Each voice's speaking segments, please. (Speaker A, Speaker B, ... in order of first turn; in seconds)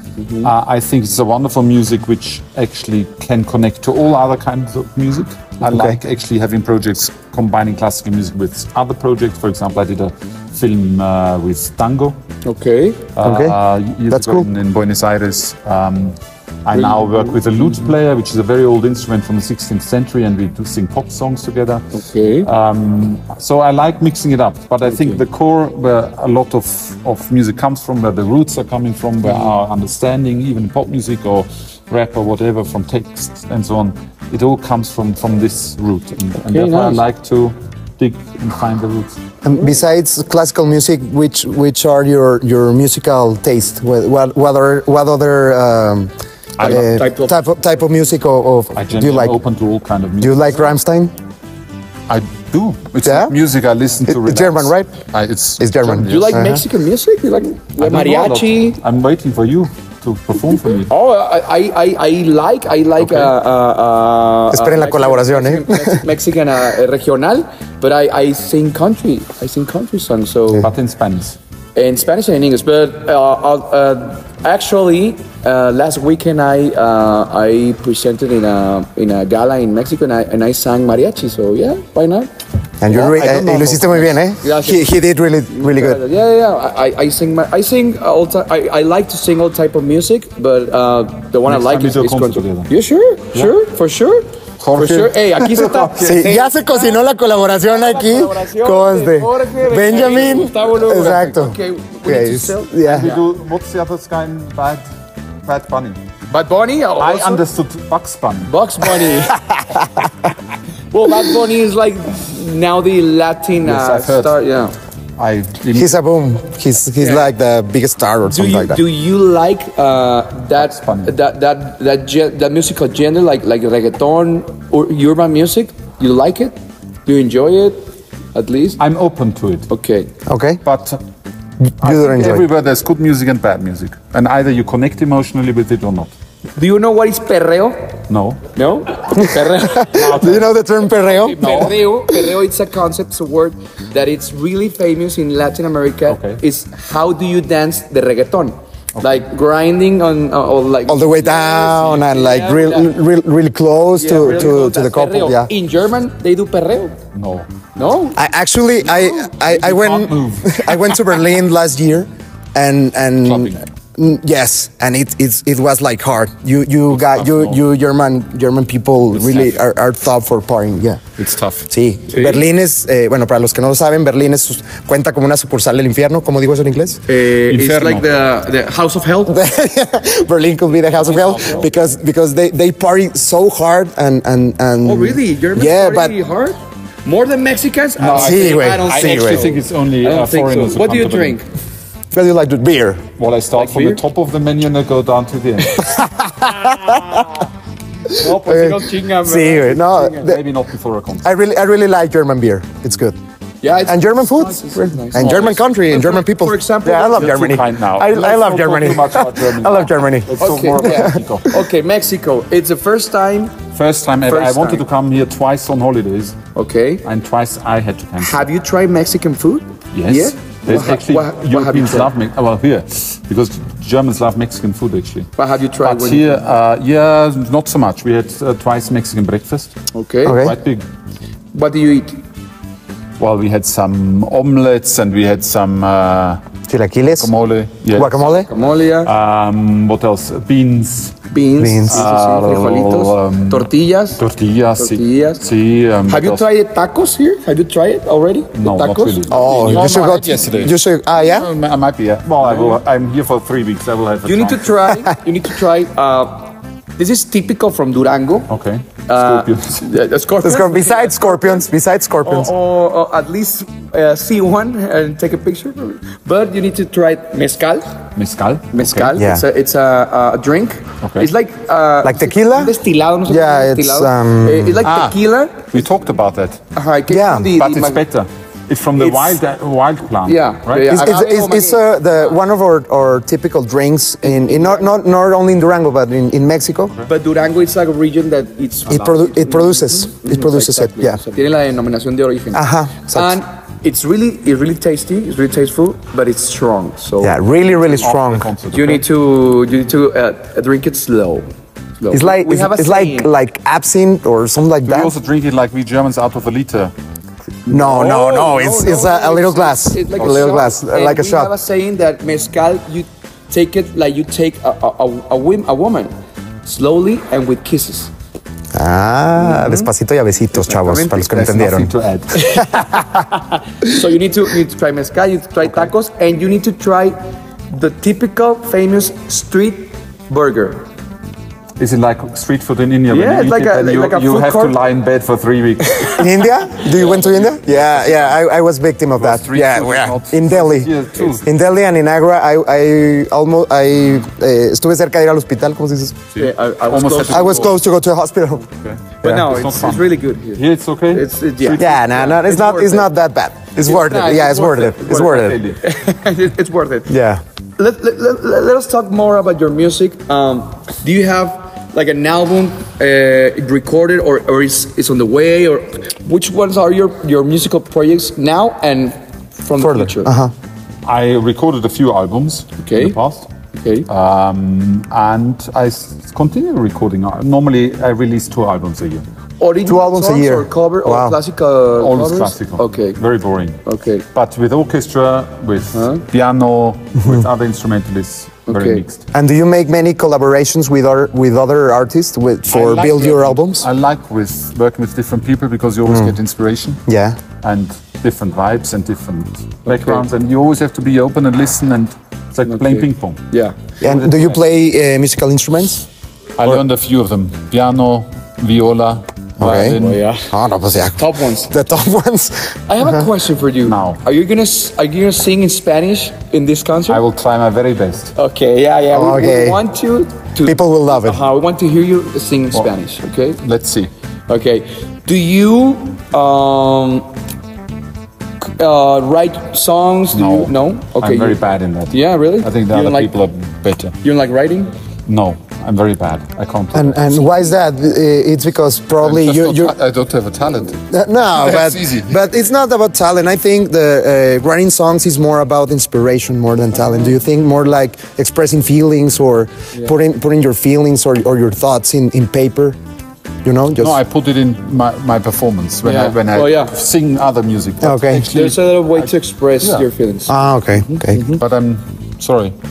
Speaker A: 0.2-0.5, 12.4-13.0, 16.7-17.9, 21.9-22.5, 24.9-25.2, 29.2-29.6, 36.4-37.0, 39.5-39.8, 46.6-47.4, 56.0-58.8, 60.9-70.7, 71.8-82.3, 82.9-84.9, 85.5-97.0, 97.6-103.2, 106.3-107.5, 108.5-109.4, 110.9-114.8, 117.0-117.3, 118.3-126.5, 127.1-127.8, 128.3-128.8, 129.7-130.1, 136.6-137.9, 138.5-140.2, 141.0-152.9, 154.0-157.0, 157.8-158.2, 172.1-172.4, 177.1-179.4, 184.8-191.4, 193.6-194.0, 196.9-197.3, 198.1-200.4, 203.6-207.5, 210.4-213.6, 214.3-214.8, 216.6-217.1, 218.2-222.1, 225.4-226.4, 229.9-230.5, 231.5-232.2, 238.2-239.1, 241.3-244.2, 244.8-245.5, 246.1-250.4, 254.2-258.5, 259.1-261.6, 262.2-268.0, 268.7-275.9, 276.8-278.1, 279.0-279.4, 280.2-282.4, 284.2-285.0, 287.1-297.4, 298.7-301.4, 302.0-303.3, 307.7-316.1, 316.6-318.1, 319.4-319.9, 322.6-327.2, 327.7-330.9, 333.1-334.8, 346.4-347.7, 349.2-353.1, 353.8-355.2, 355.8-357.1, 357.8-370.3, 372.8-373.2, 373.7-374.1, 379.6-383.2, 383.9-384.2, 385.9-386.2, 388.7-389.0, 399.9-400.3, 402.6-403.8, 409.6-410.5, 411.2-411.7, 412.9-417.2, 418.4-423.6, 424.5-427.3, 428.6-433.4, 434.2-434.9, 437.4-437.7, 456.0-456.9, 458.3-461.6
Speaker B: 0.4-12.2, 13.2-21.8, 22.4-39.2, 46.6-47.0, 48.7-50.7, 52.1-56.4, 57.8-60.9, 63.0-63.3, 70.5-71.4, 83.1-84.1, 91.5-92.7, 94.6-96.3, 102.9-104.8, 105.4-106.0, 107.0-108.5, 113.6-114.3, 115.2-115.9, 120.6-121.1, 128.8-129.7, 130.6-131.0, 131.8-136.1, 138.1-138.5, 139.8-140.6, 141.3-141.9, 146.1-146.4, 148.9-149.2, 154.2-154.6, 157.1-157.5, 158.8-161.1, 163.2-163.6, 166.9-167.6, 169.1-169.7, 171.2-171.7, 177.4-178.1, 181.0-181.7, 188.0-191.4, 193.2-196.0, 200.2-201.3, 205.2-205.7, 207.1-211.5, 213.7-216.4, 217.1-218.4, 219.9-225.3, 225.8-229.7, 230.3-230.8, 233.2-236.4, 237.2-238.3, 239.0-241.2, 241.9-246.5, 248.6-254.8, 258.5-259.8, 268.2-269.2, 271.0-271.3, 274.8-276.6, 277.6-281.0, 297.9-299.1, 304.9-306.9, 310.2-310.6, 320.7-323.0, 325.6-325.9, 331.8-338.4, 339.2-341.5, 346.4-347.8, 348.8-352.3, 354.9-355.8, 371.1-373.5, 374.1-379.2, 382.0-383.8, 384.3-389.2, 392.7-397.0, 397.6-403.4, 404.0-404.6, 406.6-410.2, 413.8-414.2, 417.1-418.3, 423.6-424.1, 430.3-434.1, 435.3-437.5, 439.2-441.0, 441.6-442.4, 454.0-460.1, 461.6-462.8
Speaker C: 5.6-6.0, 13.2-13.6, 14.1-14.5, 39.4-49.4, 50.2-51.1, 53.0-53.4, 54.1-54.9, 55.6-56.6, 64.5-66.0, 82.8-86.0, 96.0-103.1, 115.7-118.8, 130.3-130.6, 131.8-132.5, 139.8-142.4, 150.9-155.5, 158.2-171.0, 171.7-177.0, 179.3-186.2, 188.2-189.4, 192.1-193.0, 195.8-197.3, 198.2-200.4, 201.2-203.2, 203.9-211.2, 230.2-230.6, 236.7-237.3, 237.9-238.5, 241.6-242.1, 249.3-251.5, 260.4-262.5, 269.1-269.4, 272.0-272.7, 273.3-274.8, 277.1-277.5, 280.9-286.9, 288.9-291.2, 292.5-293.4, 297.2-298.5, 302.1-305.1, 307.7-311.5, 318.7-321.9, 336.1-346.2, 347.1-348.7, 349.2-349.5, 351.8-355.6, 357.1-357.4, 369.8-370.5, 379.9-381.4, 389.3-393.9, 396.1-396.4, 397.1-397.4, 404.0-406.1, 409.6-413.3, 419.1-419.8, 420.6-421.4, 436.9-439.9, 441.0-453.0, 453.6-454.2, 458.0-458.5, 460.5-461.6